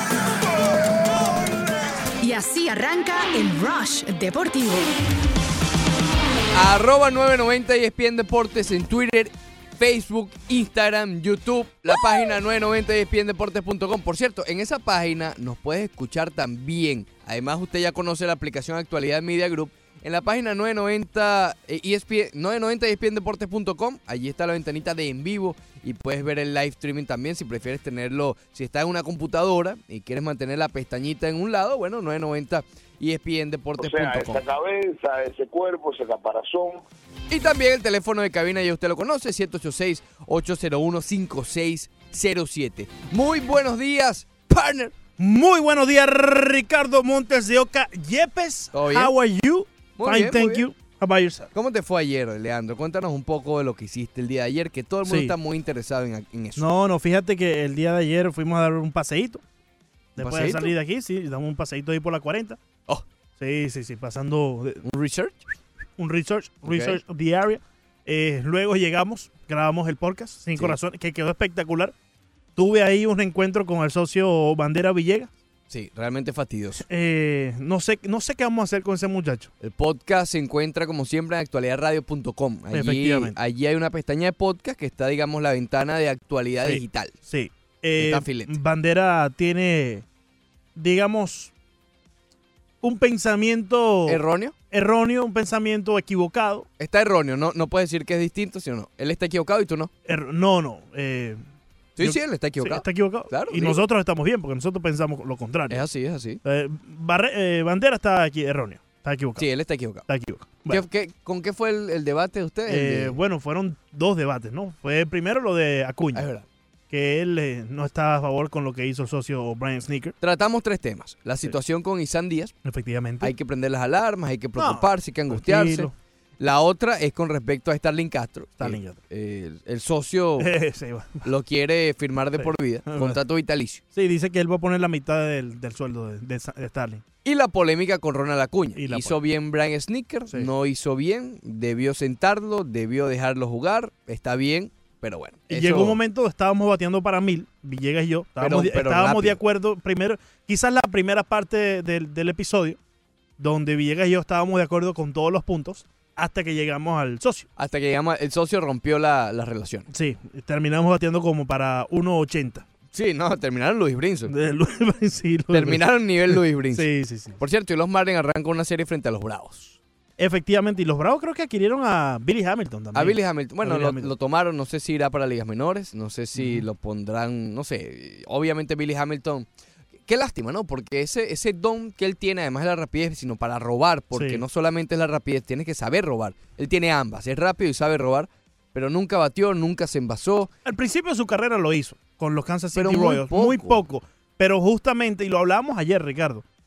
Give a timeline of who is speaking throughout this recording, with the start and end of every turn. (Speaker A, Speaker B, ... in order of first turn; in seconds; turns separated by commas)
Speaker A: 2.2-4.9, Speaker B: 6.5-34.4, Speaker C: 33.8-36.8, Speaker B: 37.3-44.9, Speaker D: 45.2-51.5, Speaker B: 48.7-49.1, Speaker B: 50.0-50.7, Speaker B: 51.5-56.7, Speaker D: 55.0-55.4, Speaker D: 56.6-59.4, Speaker B: 60.2-60.7, Speaker D: 60.2-62.6, Speaker D: 63.4-64.8, Speaker B: 64.8-65.5, Speaker D: 66.0-71.9, Speaker B: 66.7-67.0, Speaker D: 72.6-75.3, Speaker B: 75.7-76.8, Speaker D: 76.8-79.5, Speaker B: 79.6-87.2, Speaker D: 82.7-83.3, Speaker D: 86.6-90.0, Speaker B: 88.0-88.6, Speaker D: 90.8-91.5, Speaker D: 92.8-94.2, Speaker B: 94.1-94.5, Speaker D: 94.7-96.7, Speaker B: 96.8-99.9, Speaker D: 100.1-101.4, Speaker B: 102.0-103.8, Speaker D: 102.0-105.8, Speaker B: 105.7-106.4, Speaker D: 106.4-109.5, Speaker B: 109.4-110.1, Speaker D: 110.1-110.8, Speaker B: 110.7-113.2, Speaker D: 112.7-116.3, Speaker B: 116.1-116.5, Speaker D: 116.9-120.2, Speaker B: 120.2-122.5, Speaker D: 122.7-123.3, Speaker B: 123.2-130.5, Speaker D: 124.6-125.9, Speaker D: 128.6-129.0, Speaker D: 130.4-131.3, Speaker B: 131.2-133.8, Speaker D: 132.4-133.2, Speaker D: 133.9-137.0, Speaker B: 137.2-146.0, Speaker D: 138.8-139.2, Speaker D: 145.5-152.8, Speaker B: 148.4-149.4, Speaker D: 153.4-157.5, Speaker B: 157.6-159.9, Speaker D: 159.9-162.7, Speaker B: 162.9-164.3, Speaker D: 164.3-167.4, Speaker B: 165.5-166.9, Speaker B: 167.4-169.8, Speaker D: 170.2-174.1, Speaker B: 172.9-179.5, Speaker D: 176.3-176.7, Speaker B: 180.1-190.5, Speaker D: 184.1-184.4, Speaker D: 190.7-196.4, Speaker B: 192.7-193.8